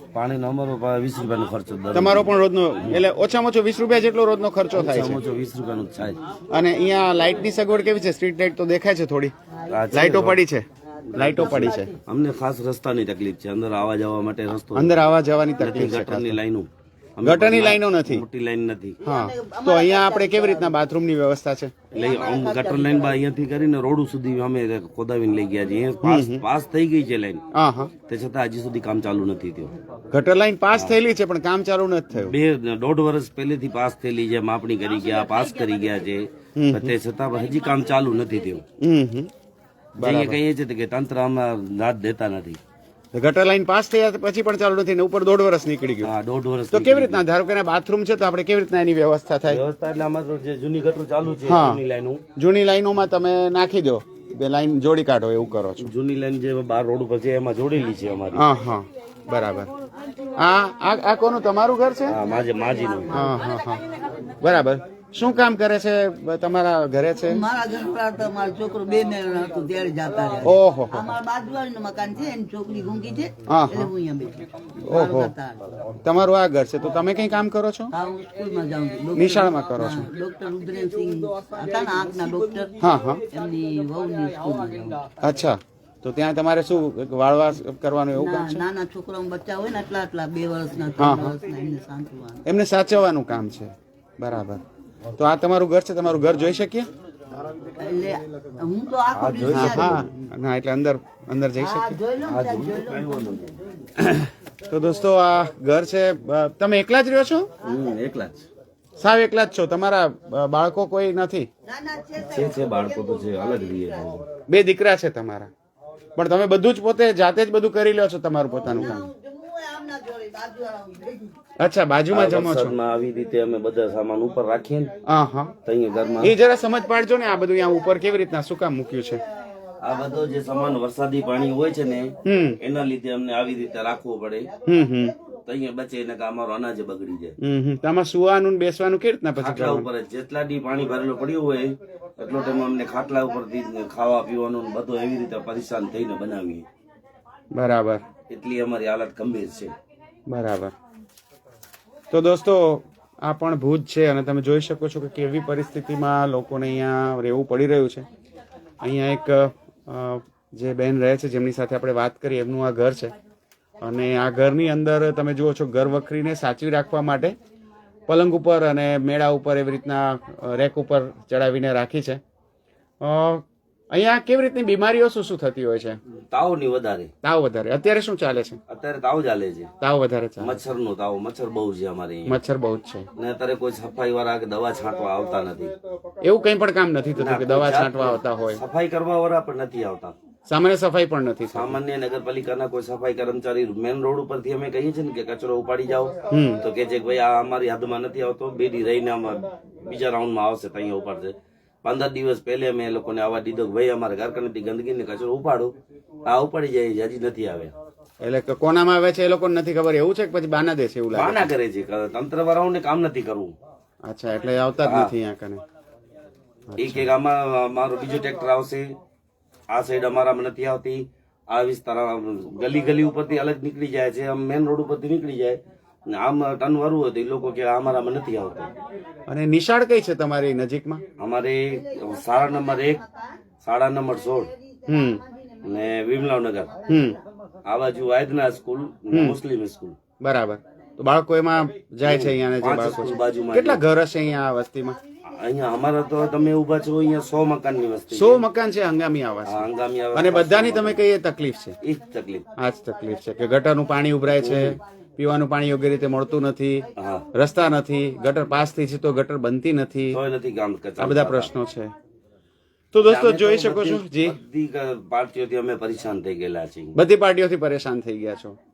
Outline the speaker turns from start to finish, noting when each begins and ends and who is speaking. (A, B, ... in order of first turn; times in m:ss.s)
0:00.1-0:03.0 A
0:01.9-0:05.2 B
0:04.7-0:06.2 A
0:06.5-0:09.3 B
0:09.7-0:10.4 A
0:09.9-0:10.6 B
0:11.1-0:19.0 A
0:11.2-0:11.9 B
0:11.2-0:12.0 C
0:14.7-0:16.4 B
0:17.2-0:18.2 B
0:19.0-0:20.8 C
0:19.0-0:21.8 B
0:21.9-0:23.2 C
0:21.9-0:27.4 A
0:26.0-0:26.4 B
0:27.5-0:27.9 B
0:28.1-0:29.7 A
0:30.1-0:32.3 B
0:32.2-0:38.6 A
0:36.6-0:36.9 B
0:38.8-0:39.3 B
0:40.0-0:40.4 B
0:40.0-0:42.6 A
0:43.1-0:46.1 B
0:46.0-0:47.2 A
0:46.7-0:49.6 B
0:49.5-0:52.2 A
0:51.5-0:51.8 B
0:52.4-0:55.9 B
0:55.8-0:58.5 A
0:58.3-0:59.7 B
1:00.4-1:02.2 B
1:02.1-1:03.2 A
1:02.8-1:03.3 C
1:03.1-1:07.4 B
1:07.3-1:15.6 C
1:10.4-1:11.1 B
1:13.5-1:13.9 B
1:14.8-1:15.3 B
1:16.0-1:17.9 B
1:17.9-1:22.7 C
1:19.2-1:20.1 B
1:22.8-1:23.2 B
1:23.3-1:25.3 C
1:25.2-1:28.6 B
1:28.2-1:32.4 C
1:31.0-1:31.3 B
1:32.5-1:34.6 B
1:35.2-1:36.9 B
1:37.8-1:40.0 C
1:39.1-1:40.1 A
1:39.5-1:42.0 B
1:41.6-1:43.3 C
1:42.3-1:43.6 A
1:44.1-1:47.5 B
1:47.6-1:48.5 A
1:49.0-1:51.5 B
1:51.6-1:54.2 C
1:52.2-1:54.2 A
1:54.5-1:55.5 B
1:56.2-1:59.1 B
1:58.6-2:01.3 C
2:01.6-2:02.8 B
2:02.1-2:04.9 A
2:05.1-2:05.5 B
2:05.6-2:06.3 A
2:06.2-2:09.2 B
2:09.8-2:14.5 A
2:12.2-2:12.6 B
2:14.7-2:15.1 B
2:15.5-2:17.3 A
2:17.4-2:19.9 B
2:19.4-2:26.7 A
2:27.5-2:28.0 B
2:28.3-2:29.7 A
2:30.3-2:30.7 B
2:32.1-2:38.1 B
2:38.8-2:43.1 B
2:43.8-2:47.4 B
2:48.1-2:52.2 B
2:53.0-2:56.0 B
2:56.3-2:57.1 A
2:57.2-2:58.6 B
2:58.7-2:59.7 A
2:59.8-3:00.6 B
3:00.4-3:02.4 A
3:02.3-3:03.1 B
3:03.2-3:05.8 A
3:06.2-3:08.6 B
3:07.2-3:10.2 A
3:10.5-3:11.8 B
3:11.5-3:25.7 A
3:16.3-3:16.6 B
3:26.3-3:27.7 A
3:28.2-3:31.5 B
3:31.1-3:33.5 A
3:34.0-3:35.6 B
3:34.8-3:35.1 A
3:36.7-3:37.1 B
3:36.8-3:38.9 A
3:39.7-3:48.7 A
3:49.3-3:51.0 B
3:51.2-3:53.0 A
3:53.6-3:54.5 A
3:54.9-3:55.2 B
3:55.6-3:56.7 A
3:56.9-3:57.2 B
3:57.7-4:00.0 A
3:59.1-3:59.4 B
4:00.2-4:05.0 B
4:02.0-4:03.8 A
4:05.3-4:08.4 A
4:08.1-4:11.8 B
4:09.4-4:11.0 A
4:11.8-4:12.4 A
4:12.6-4:20.2 B
4:14.3-4:14.8 A
4:17.0-4:17.3 A
4:20.1-4:21.5 A
4:21.0-4:21.9 B
4:22.9-4:24.4 B
4:23.0-4:27.0 A
4:27.0-4:28.6 B